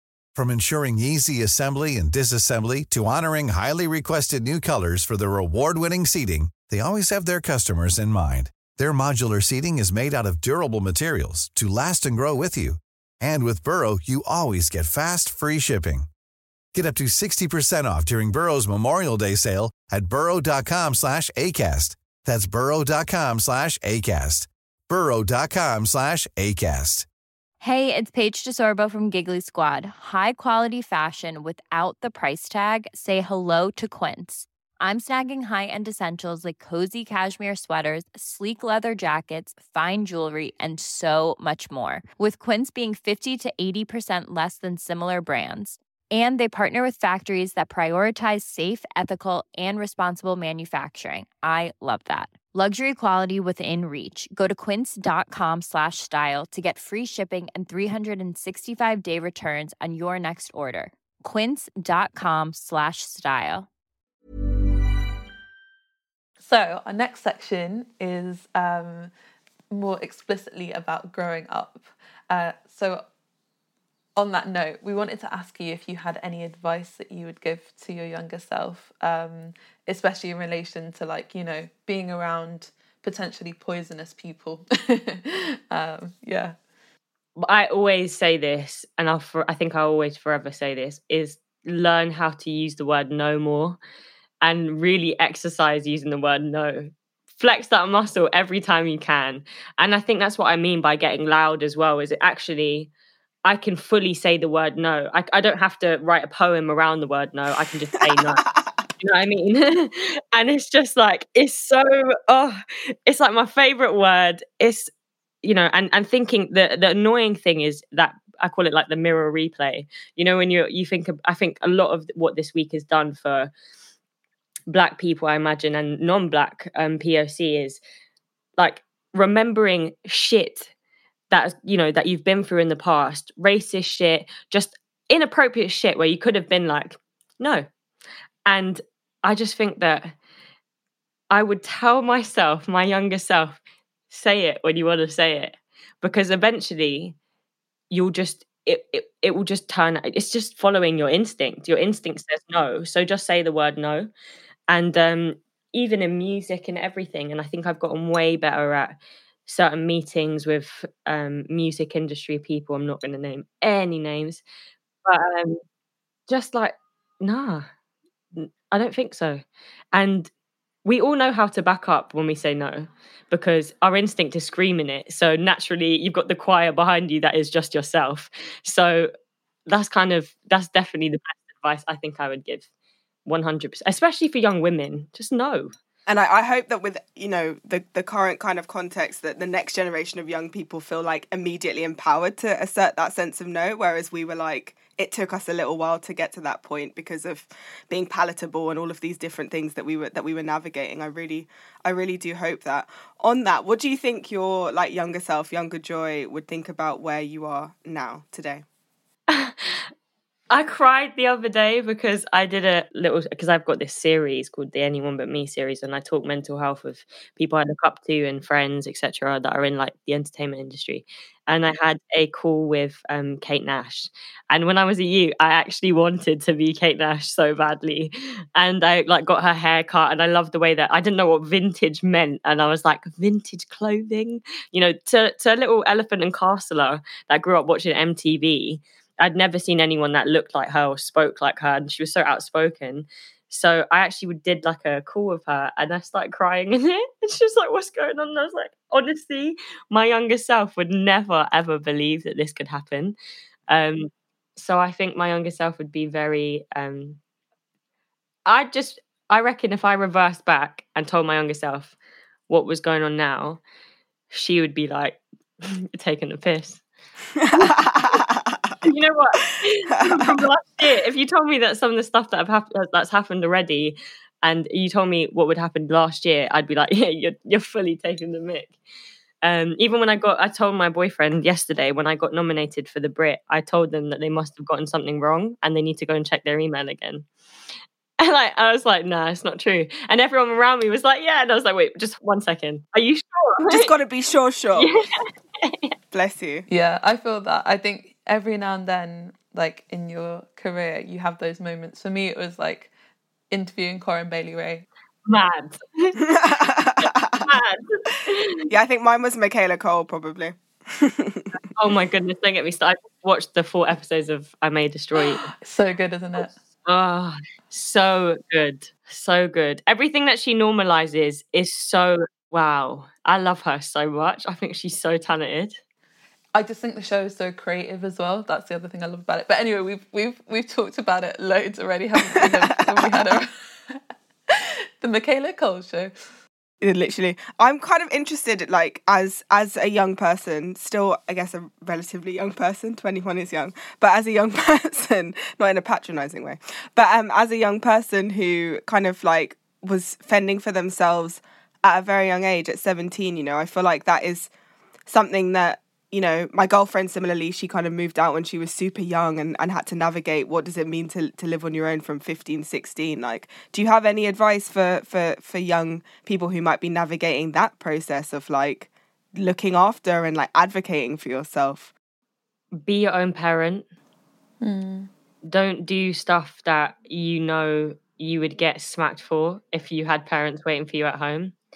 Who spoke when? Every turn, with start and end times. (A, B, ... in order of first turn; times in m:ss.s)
0:00.4-0:16.1 A
0:16.7-0:27.1 A
0:27.6-1:03.7 B
1:06.4-1:09.1 C
1:09.7-1:13.0 C
1:14.2-1:26.6 C
1:27.4-1:33.8 D
1:34.4-1:42.9 D
1:43.4-1:48.4 D
1:48.1-1:48.7 E
1:49.0-1:54.9 D
1:55.4-2:03.5 D
2:04.7-2:07.8 D
2:08.6-2:10.7 D
2:11.3-2:17.7 D
2:18.4-2:20.1 D
2:21.3-2:27.1 D
2:27.9-2:34.1 D
2:34.7-2:38.9 D
2:39.4-2:44.4 D
2:45.0-2:45.6 D
2:46.3-2:47.7 D
2:48.4-2:50.3 D
2:50.8-2:59.1 D
2:59.7-3:02.7 D
3:03.3-3:05.7 D
3:06.1-3:28.6 E
3:29.3-3:29.8 D
3:30.5-4:13.1 D
4:13.7-4:17.2 D
4:18.4-4:21.9 D
4:22.5-4:23.6 D
4:24.3-4:26.8 D
4:27.4-4:28.8 E
4:27.5-4:28.2 D
4:28.8-4:38.7 D
4:30.0-4:30.4 E
4:39.4-4:47.3 D
4:48.2-4:53.9 D
4:53.7-4:54.9 E
4:54.8-4:55.9 D
4:56.1-4:56.7 E
4:56.7-5:02.9 C
5:03.5-5:04.9 C
5:05.3-5:06.2 D
5:06.2-5:07.4 E
5:07.0-5:08.7 D
5:08.7-5:11.5 E
5:11.8-5:15.5 D
5:15.3-5:16.5 C
5:16.4-5:25.8 D
5:26.6-5:36.1 C
5:32.2-5:33.3 E
5:36.8-5:54.5 E
5:55.1-6:11.9 E
6:12.8-6:13.8 D
6:14.6-6:15.1 C
6:15.4-6:21.5 D